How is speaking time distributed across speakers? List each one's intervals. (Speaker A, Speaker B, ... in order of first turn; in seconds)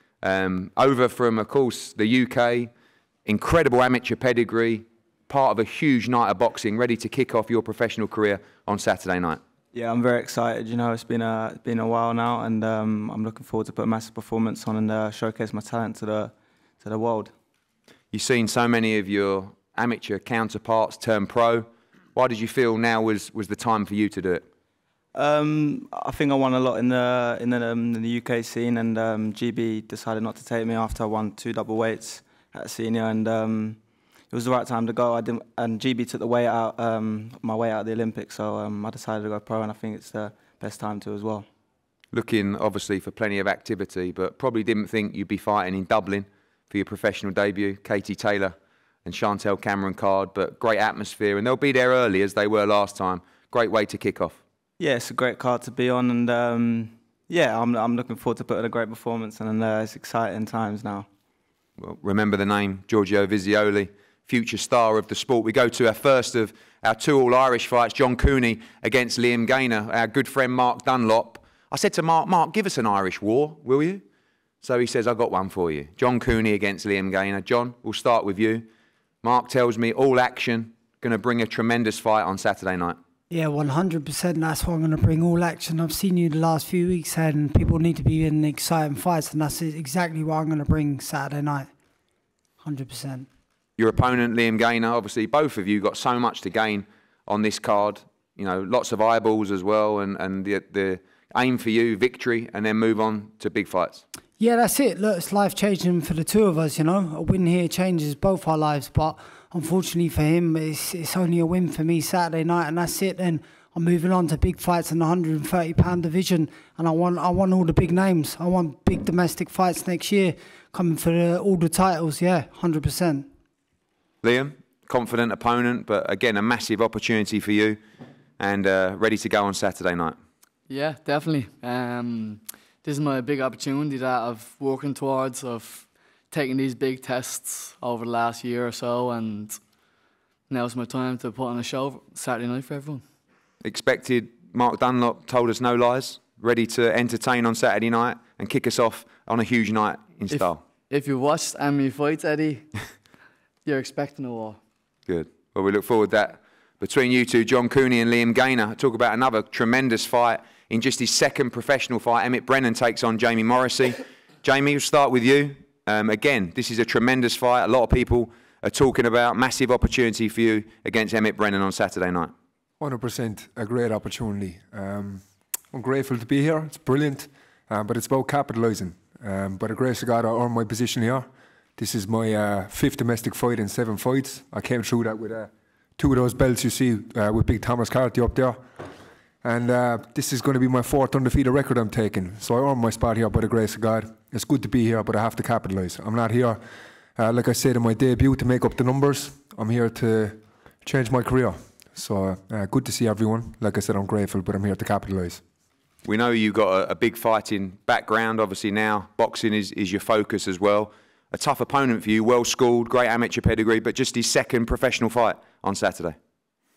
Speaker A: 0.2-2.7, 3.2-9.4, 18.1-24.4, 42.1-54.4, 61.8-74.0, 74.6-78.7, 79.2-83.0, 93.8-104.0, 124.2-127.8, 128.4-130.2, 143.6-150.6, 155.1-172.3, 206.0-216.2
Speaker B: 9.7-17.3, 25.1-33.8, 34.3-41.5, 54.8-61.1
Speaker C: 83.3-91.7, 92.6-93.3, 104.4-123.3
Speaker D: 130.7-139.6, 140.5-143.0, 150.3-153.0, 153.6-154.6
Speaker E: 172.8-188.8, 189.4-196.6, 197.2-205.4